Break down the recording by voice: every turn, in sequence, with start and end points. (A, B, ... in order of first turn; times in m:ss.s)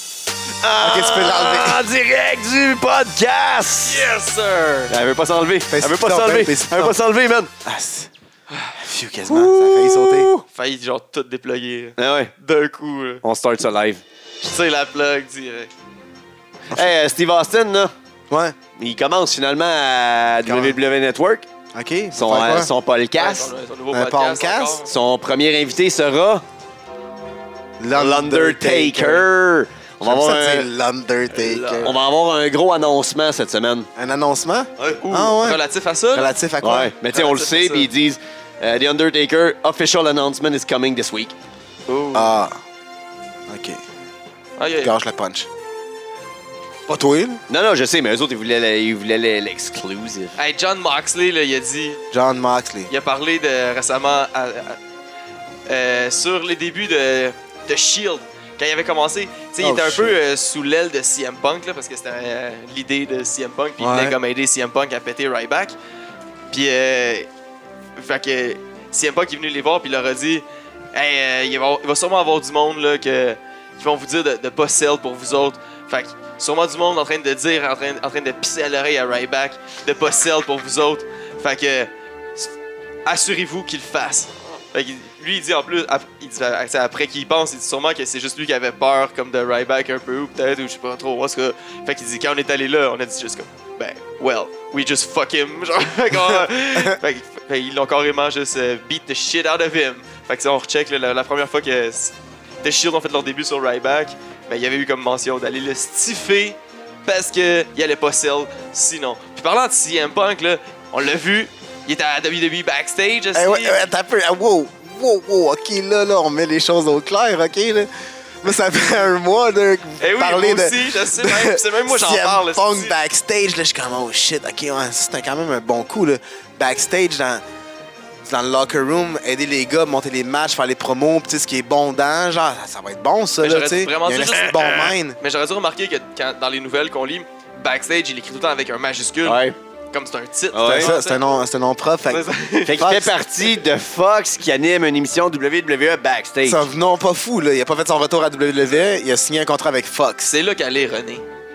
0:00.6-0:04.1 A
0:00.8-0:01.8 B
0:03.8-0:05.0 C
0:04.9-0:07.5 A
0:05.7-0:07.0 B
0:07.6-0:08.1 B
0:08.8-0:10.3 B
0:09.3-0:10.4 A
0:10.5-0:13.2 C
0:12.0-0:12.3 A
0:13.2-0:14.0 A
0:14.4-0:15.7 C
0:16.7-0:17.9 A
0:18.3-0:18.6 B
0:18.8-0:21.5 A
0:20.4-0:20.8 B
0:21.7-0:22.7 B
0:22.1-0:23.5 A
0:23.2-0:24.9 C
0:23.9-0:24.8 B
0:24.9-0:26.4 A
0:27.8-0:29.3 B
0:27.9-0:30.7 A
0:30.0-0:32.0 B
0:31.3-0:32.0 C
0:31.8-0:33.9 A
0:34.0-0:35.6 B
0:35.0-0:36.3 C
0:36.1-0:36.9 B
0:36.6-0:41.4 A
0:37.0-0:37.9 C
0:41.9-0:42.4 C
0:42.1-0:42.6 B
0:43.5-0:43.8 B
0:44.6-0:44.9 C
0:44.8-0:45.5 B
0:46.9-0:47.4 B
0:47.5-0:50.4 A
0:50.4-0:52.0 C
0:52.1-0:52.9 B
0:52.9-0:54.8 C
0:55.7-1:05.8 C
0:59.6-1:00.2 B
1:03.8-1:04.2 B
1:06.5-1:07.3 C
1:08.0-1:22.5 C
1:23.1-1:53.9 C
1:36.3-1:37.0 B
1:53.4-2:07.4 B
2:00.0-2:03.0 C
2:08.2-2:15.2 B
2:13.4-2:21.2 C
2:19.2-2:19.6 A
2:20.5-2:20.9 A
2:20.7-2:23.1 B
2:22.1-2:22.9 C
2:22.7-2:26.6 A
2:26.4-2:30.3 B
2:30.3-2:31.2 C